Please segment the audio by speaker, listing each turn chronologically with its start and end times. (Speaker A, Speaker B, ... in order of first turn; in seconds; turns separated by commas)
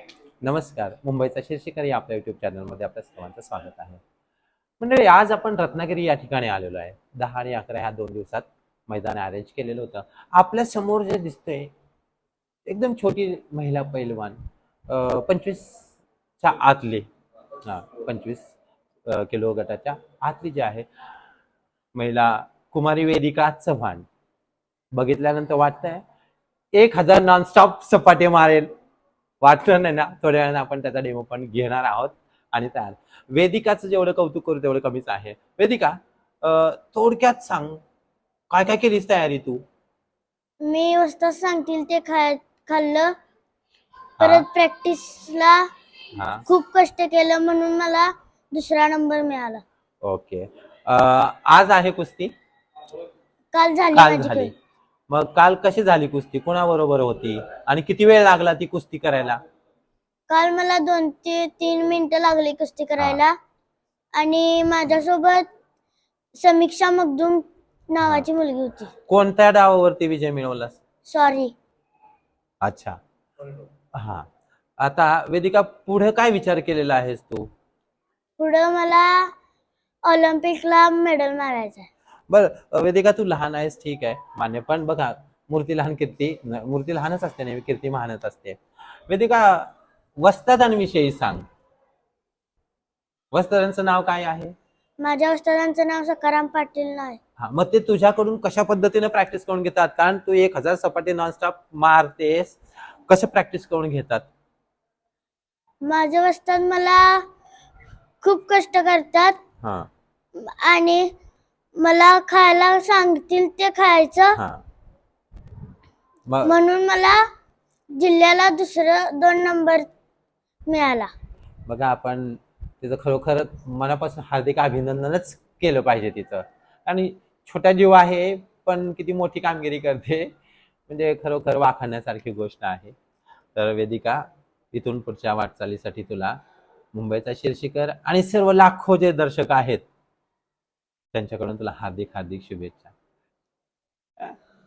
Speaker A: 0.4-4.0, Speaker A: 4.8-11.7, Speaker A: 12.7-14.4, Speaker A: 14.9-15.9, Speaker A: 16.4-17.1, Speaker A: 17.6-18.5, Speaker A: 19.1-20.9, Speaker A: 21.9-24.1, Speaker A: 24.9-26.0, Speaker A: 26.7-28.7, Speaker A: 29.4-37.8, Speaker A: 38.5-39.6, Speaker B: 40.6-43.1, Speaker A: 44.2-44.5, Speaker B: 44.2-45.6, Speaker A: 46.1-46.5, Speaker B: 46.5-49.6, Speaker A: 50.0-52.3, Speaker B: 53.5-54.5, Speaker A: 53.9-54.5, Speaker A: 55.1-59.4, Speaker B: 60.3-63.3, Speaker B: 64.2-65.5, Speaker B: 66.4-68.9, Speaker A: 69.1-70.8, Speaker B: 71.1-71.5, Speaker A: 72.6-73.0, Speaker A: 73.9-74.3, Speaker A: 74.8-77.5, Speaker B: 78.4-79.3, Speaker B: 80.0-81.9, Speaker A: 82.3-91.5, Speaker A: 93.3-94.5, Speaker B: 95.0-97.2, Speaker A: 97.4-104.3, Speaker B: 105.8-107.2, Speaker B: 108.2-109.4, Speaker A: 109.6-109.9, Speaker B: 110.3-111.1, Speaker B: 111.8-114.4, Speaker A: 114.3-114.6, Speaker A: 116.3-116.5, Speaker B: 116.4-117.2, Speaker B: 117.9-119.8, Speaker B: 120.7-121.1, Speaker A: 121.7-130.3, Speaker A: 130.9-132.9, Speaker A: 133.6-136.4, Speaker A: 136.9-139.8, Speaker A: 141.1-142.9